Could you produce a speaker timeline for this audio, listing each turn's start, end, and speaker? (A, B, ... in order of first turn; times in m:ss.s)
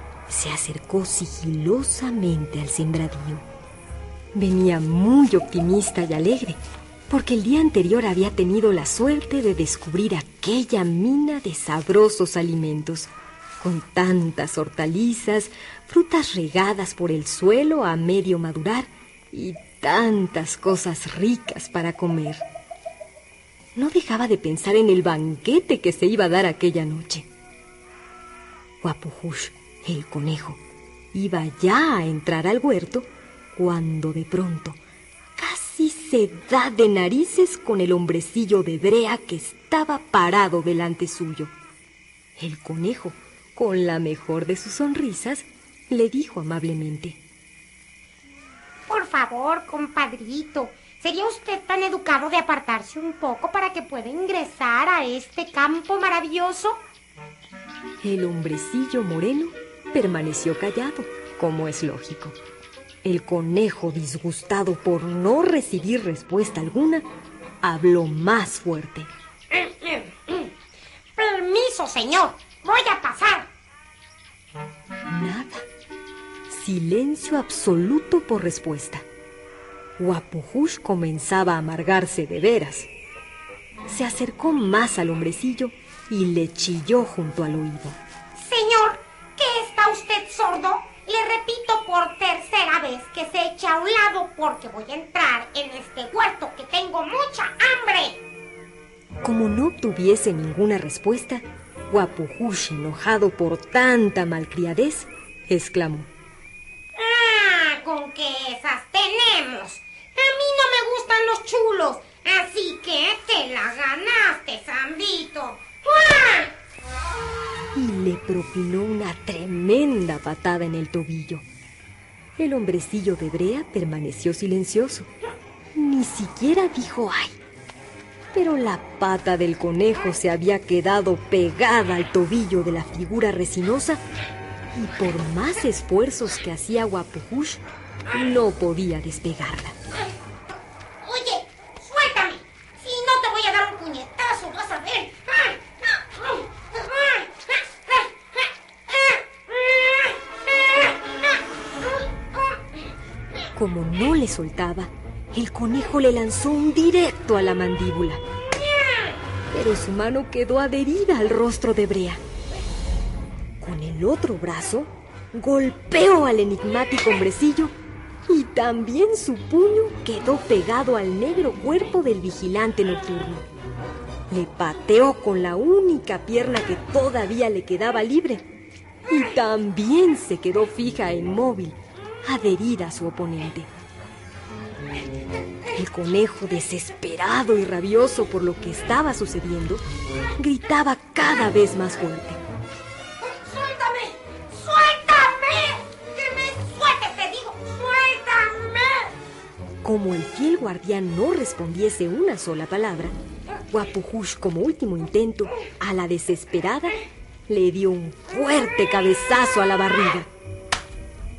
0:00.3-0:03.4 A
0:04.3-0:22.4 A
0:23.7-0:27.3 A
0:28.8-0:30.6 A
0:31.1-0:34.8 A
0:35.4-0:41.5 A
0:42.4-0:47.2 A
0:48.9-0:56.8 B
0:58.0-1:02.4 A
1:03.0-1:07.0 A
1:07.6-1:09.1 A
1:09.5-1:10.5 B
1:11.2-1:13.5 B
1:15.1-1:15.6 A
1:16.5-1:19.0 A
1:20.0-1:22.9 A
1:23.9-1:28.0 A
1:28.4-1:38.2 B
1:39.2-1:46.1 A
1:47.0-1:56.5 B
1:57.7-2:01.4 A
2:02.4-2:05.1 A
2:05.7-2:07.4 A
2:08.3-2:14.0 A
2:14.7-2:19.8 A
2:21.0-2:28.0 B
2:28.9-2:30.1 B
2:33.5-2:38.2 A
2:39.5-2:42.2 A
2:43.6-2:47.7 A
2:48.3-2:53.4 A
2:54.3-2:58.4 A
2:59.1-3:03.7 A
3:05.7-3:09.8 A
3:10.4-3:12.4 A
3:13.2-3:19.1 B
3:19.8-3:23.1 A
3:23.7-3:30.3 A